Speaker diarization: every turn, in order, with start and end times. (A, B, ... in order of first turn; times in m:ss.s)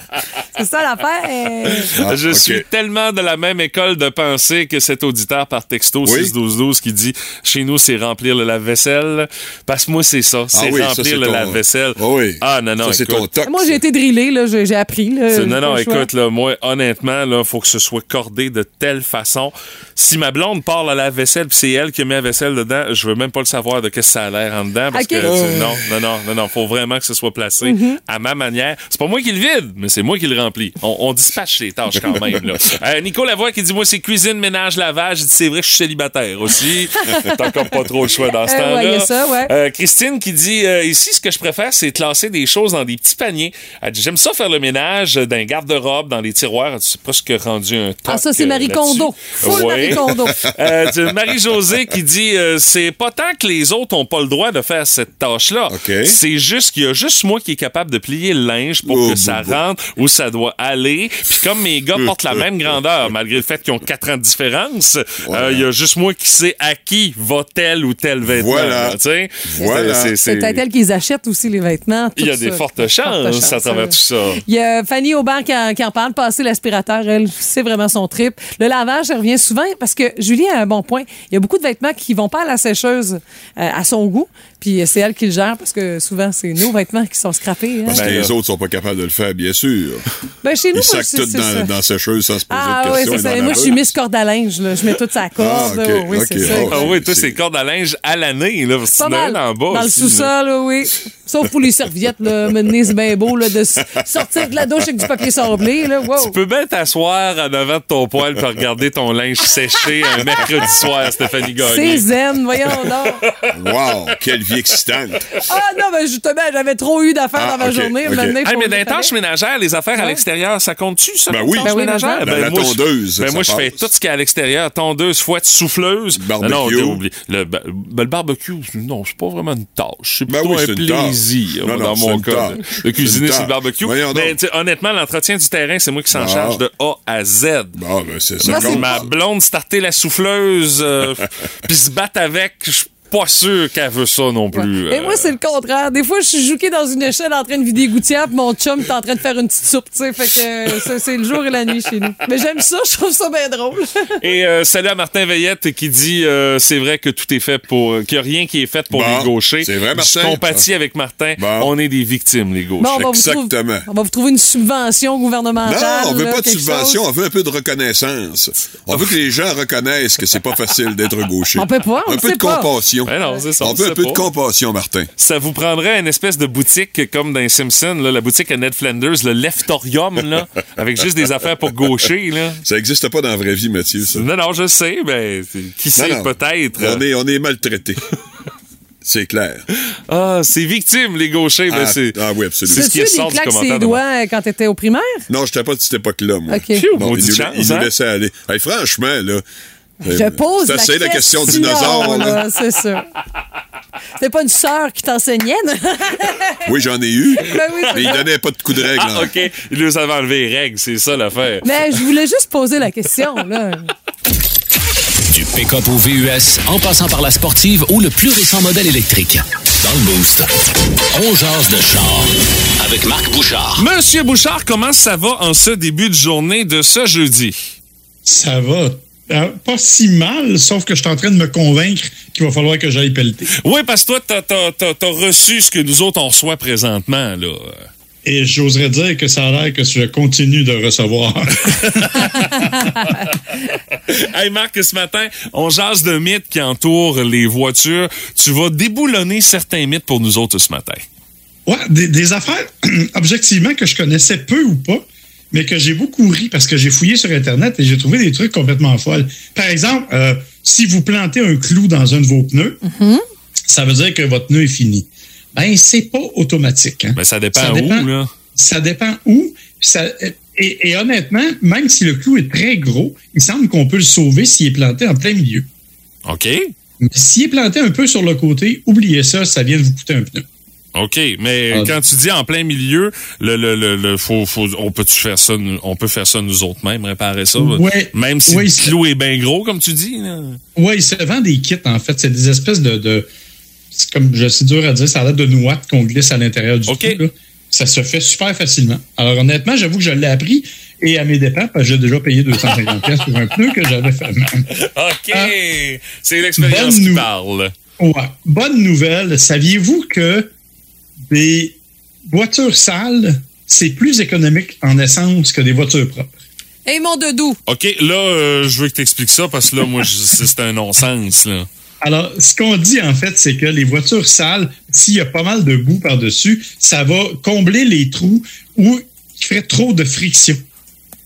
0:00.5-0:01.9 A
0:01.6-0:13.3 B
0:01.9-0:02.6 C
0:06.0-0:06.3 C
0:10.5-0:13.8 C
0:13.4-0:16.1 A
0:15.3-1:10.6 B
0:24.9-0:25.5 A
0:25.2-0:25.8 C
0:27.6-0:28.0 A
0:32.0-0:32.4 C
0:37.0-0:37.4 A
0:38.4-0:39.5 A
0:48.1-0:50.4 A
0:55.7-0:56.2 C
0:58.8-0:59.6 C
1:02.0-1:02.8 C
1:05.2-1:05.6 C
1:08.3-1:10.1 C
1:09.6-1:28.1 A
1:12.2-1:14.4 B
1:27.8-1:30.0 C
1:27.9-1:28.3 B
1:30.4-1:31.7 A
1:30.7-1:33.9 C
1:32.5-1:36.9 A
1:35.4-1:37.4 C
1:36.4-1:40.3 B
1:39.0-1:46.4 A
1:46.2-1:52.1 B
1:51.6-1:53.2 A
1:53.2-1:53.5 B
1:53.5-1:55.3 C
1:55.4-1:59.1 A
1:57.4-1:58.4 C
1:58.4-2:17.8 B
2:00.0-2:00.2 A
2:01.3-2:03.8 C
2:01.6-2:02.2 A
2:06.2-2:07.0 C
2:10.3-2:14.4 C
2:16.1-2:16.6 C
2:17.8-2:19.1 C
2:18.4-2:25.3 B
2:18.5-2:19.0 A
2:24.5-2:34.2 A
2:34.2-2:43.0 B
2:38.9-2:40.6 C
2:41.4-2:41.7 C
2:42.8-2:47.0 A
2:42.9-2:43.8 C
2:45.6-2:55.1 C
2:51.5-2:52.7 A
2:53.0-2:54.2 B
2:55.2-3:02.6 B
3:02.6-3:04.2 C
3:04.1-3:07.0 B
3:06.0-3:08.0 C
3:09.0-3:09.7 C
3:10.1-3:14.0 B
3:11.7-3:12.9 C
3:12.7-3:15.3 A
3:15.3-3:19.4 C
3:16.5-3:16.8 A
3:16.7-3:17.9 B
3:20.0-3:22.4 C
3:20.0-3:23.1 A
3:24.2-3:26.7 A
3:26.6-3:29.3 C
3:27.4-3:28.3 A
3:28.9-3:31.8 B
3:31.6-3:33.9 A
3:35.3-3:40.5 D
3:41.1-3:43.8 D
3:43.8-3:47.7 B
3:48.2-3:53.5 E
3:53.5-3:57.9 B
3:58.2-4:03.1 E
4:01.7-4:03.2 B
4:04.1-4:11.0 B
4:11.6-4:22.8 E
4:22.8-4:23.2 A
4:23.7-4:35.7 E
4:27.2-4:28.3 B
4:36.2-4:36.7 B
4:37.0-4:40.4 E
4:40.9-4:50.6 B
4:47.6-4:49.0 E
4:50.7-4:53.3 E
4:53.9-5:04.7 E
4:56.9-4:57.2 B
5:04.7-5:07.7 B
5:05.3-5:05.6 E
5:06.6-5:07.3 E
5:08.0-5:10.5 E
5:11.3-5:16.4 E
5:16.8-5:17.6 A
5:17.7-5:21.7 B
5:22.0-5:30.6 E